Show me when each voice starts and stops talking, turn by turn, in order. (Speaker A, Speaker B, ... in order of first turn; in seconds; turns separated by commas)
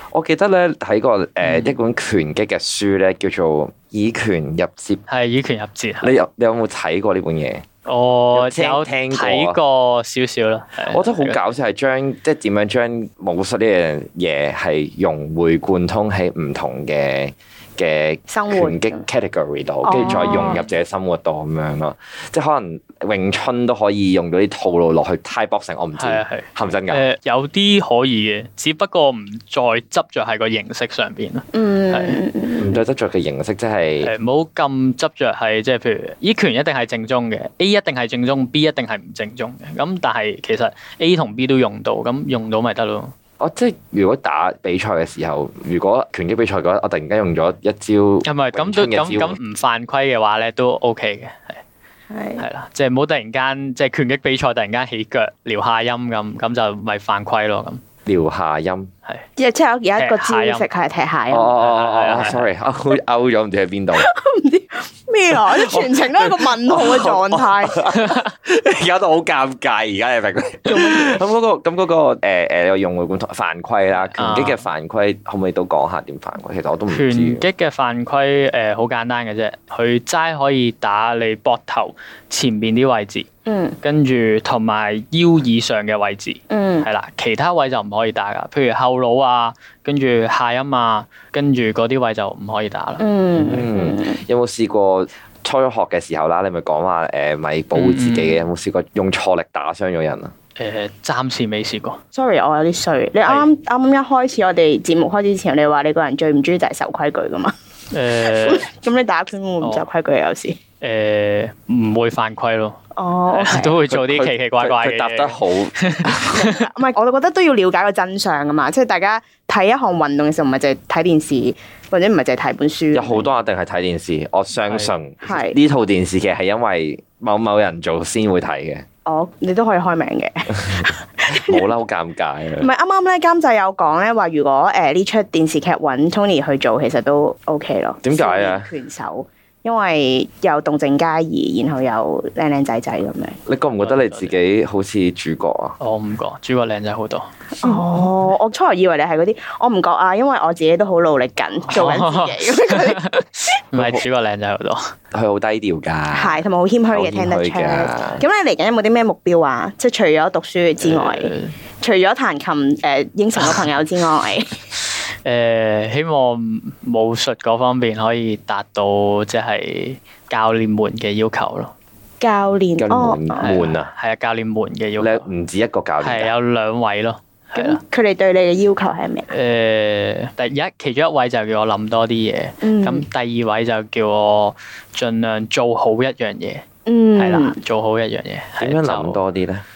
Speaker A: 0.1-5.0, Speaker B: 1.4-1.7, Speaker B: 5.1-6.2, Speaker A: 6.0-7.6, Speaker B: 7.8-11.4, Speaker A: 8.3-9.6, Speaker A: 10.9-27.1, Speaker C: 18.3-19.1, Speaker C: 19.8-20.6, Speaker B: 19.9-20.6, Speaker B: 26.0-32.2, Speaker C: 31.5-32.8, Speaker A: 32.6-34.1, Speaker B: 34.0-43.1, Speaker A: 43.4-49.4, Speaker B: 48.2-51.6, Speaker C: 52.1-52.5, Speaker B: 52.4-57.8, Speaker A: 58.1-58.9, Speaker C: 59.4-61.6, Speaker B: 60.0-60.7, Speaker A: 61.3-64.1, Speaker B: 61.6-62.5, Speaker C: 63.9-67.9, Speaker A: 65.3-77.5, Speaker C: 70.7-71.2, Speaker B: 74.0-74.7, Speaker B: 76.9-83.3, Speaker C: 83.5-83.8, Speaker B: 83.8-93.6, Speaker C: 86.5-86.9, Speaker C: 93.0-94.2, Speaker A: 93.5-100.3, Speaker B: 97.7-98.5, Speaker B: 100.6-102.0, Speaker C: 102.1-107.5, Speaker B: 103.2-103.5, Speaker B: 107.9-108.7, Speaker C: 108.2-110.6, Speaker B: 110.8-112.8, Speaker C: 113.0-113.8, Speaker B: 113.3-116.5, Speaker A: 113.9-116.3, Speaker C: 116.1-123.2, Speaker A: 122.9-128.8, Speaker B: 124.7-124.9, Speaker C: 125.2-125.6, Speaker C: 129.1-131.7, Speaker A: 130.7-132.7, Speaker C: 132.6-143.4, Speaker A: 138.0-138.7, Speaker A: 143.5-145.8, Speaker B: 143.8-144.4, Speaker B: 145.8-148.1, Speaker C: 147.6-153.0, Speaker B: 151.7-154.9, Speaker A: 153.8-154.0, Speaker A: 155.1-158.2, Speaker C: 156.1-164.6, Speaker B: 160.8-161.6, Speaker B: 165.2-171.7, Speaker C: 172.2-173.6, Speaker A: 172.8-173.9, Speaker B: 173.4-175.3, Speaker A: 175.0-176.3, Speaker B: 176.0-177.8, Speaker C: 177.6-179.3, Speaker B: 179.3-186.6, Speaker C: 182.6-183.1, Speaker C: 186.9-187.6, Speaker B: 187.2-189.2, Speaker A: 188.6-189.6